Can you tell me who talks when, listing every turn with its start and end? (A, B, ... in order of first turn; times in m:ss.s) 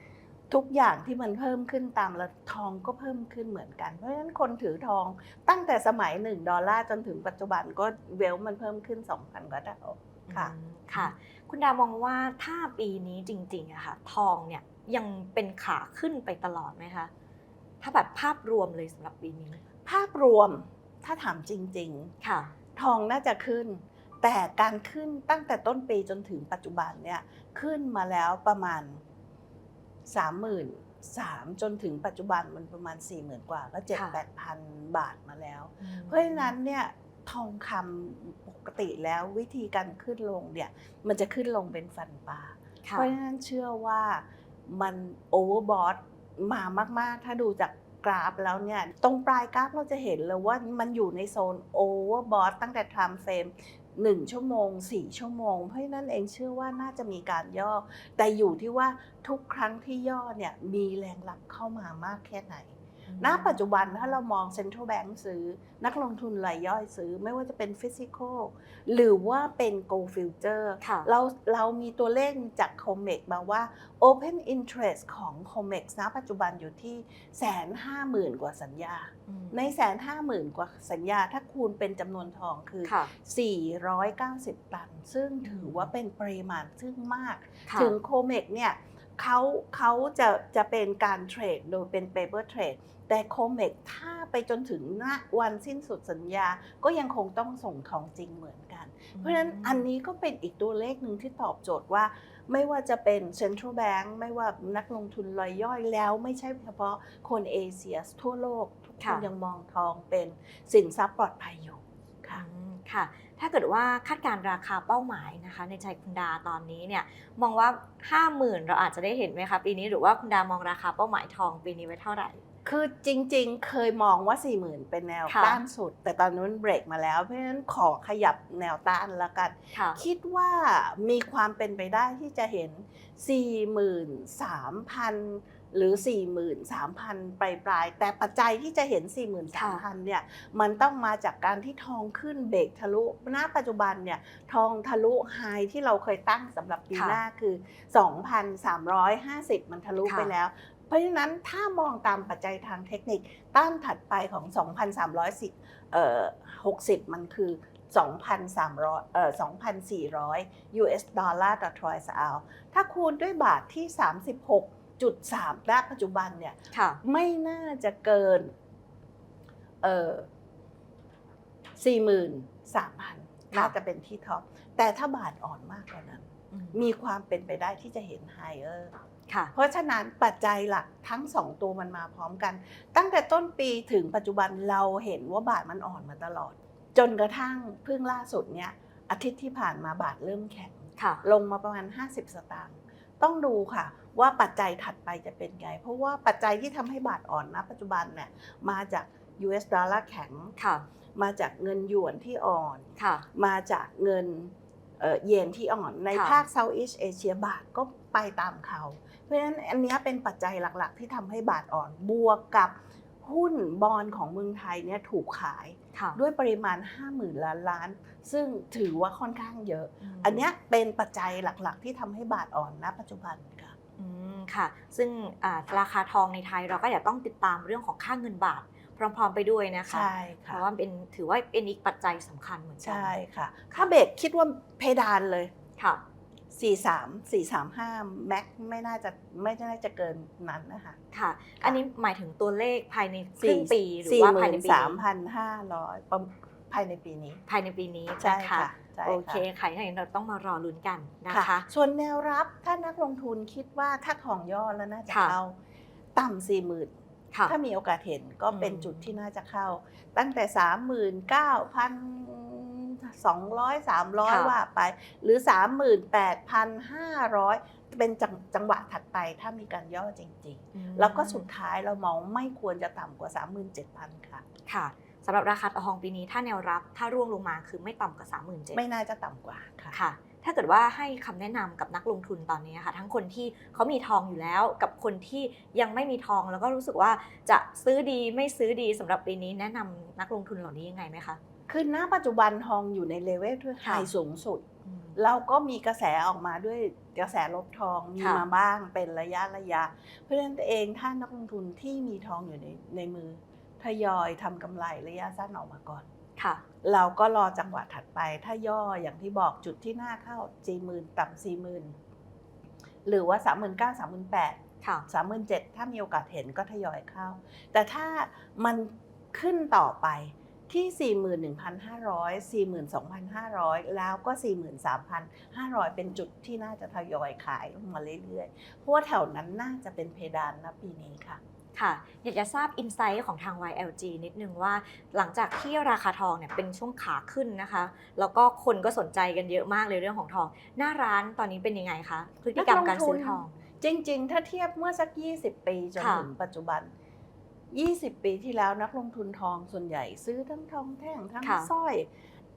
0:00.5-0:11.1 A
0:10.3-0:17.1 B
0:17.8-0:19.6 B
0:19.9-0:22.1 A
0:22.2-0:22.5 B
0:22.8-0:29.0 A
0:30.1-1:52.4 A
0:35.8-0:36.5 B
0:42.8-0:43.1 B
1:03.1-1:03.6 B
1:10.8-1:11.1 B
1:19.3-1:19.6 B
1:22.8-1:23.1 B
1:25.4-1:25.9 B
1:27.7-1:28.0 B
1:39.1-1:39.9 B
1:49.0-1:49.3 B
1:52.4-2:02.4 B
2:02.6-2:48.5 A
2:05.3-2:05.6 B
2:09.7-2:10.0 B
2:19.5-2:19.8 B
2:26.9-2:27.2 B
2:30.0-2:30.3 B
2:46.7-2:47.0 B
2:49.8-2:50.3 A
2:51.8-2:59.0 A
2:56.5-2:56.8 B
2:59.5-3:20.5 A
3:11.0-3:11.2 B
3:20.6-3:20.9 B
3:21.1-3:43.8 A
3:23.0-3:23.2 B
3:26.1-3:26.4 B
3:35.9-3:36.2 B
3:40.0-3:40.4 B
3:44.0-3:53.1 B
3:49.9-3:50.6 A
3:52.8-3:55.5 A
3:55.8-3:56.0 B
3:56.5-4:01.0 A
4:01.1-4:05.0 B
4:03.4-4:07.4 A
4:07.5-4:11.7 B
4:08.2-4:09.4 A
4:11.3-4:15.6 A
4:15.1-4:15.4 B
4:16.1-4:16.9 A
4:17.4-4:34.5 A
4:18.5-4:19.1 B
4:24.2-4:24.5 B
4:30.7-4:31.5 B
4:34.7-4:38.8 B
4:38.7-4:40.0 A
4:39.9-4:51.4 B
4:51.7-4:54.6 A
4:53.8-4:54.1 B
4:54.9-4:55.2 B
4:55.2-5:06.0 A
4:58.2-4:58.4 B
5:06.4-5:06.6 B
5:06.8-5:11.9 A
5:13.0-5:31.4 A
5:14.8-5:15.1 B
5:31.8-5:43.6 B
5:42.5-5:46.9 A
5:46.0-5:46.3 B
5:47.7-5:52.1 A
5:51.4-5:51.7 B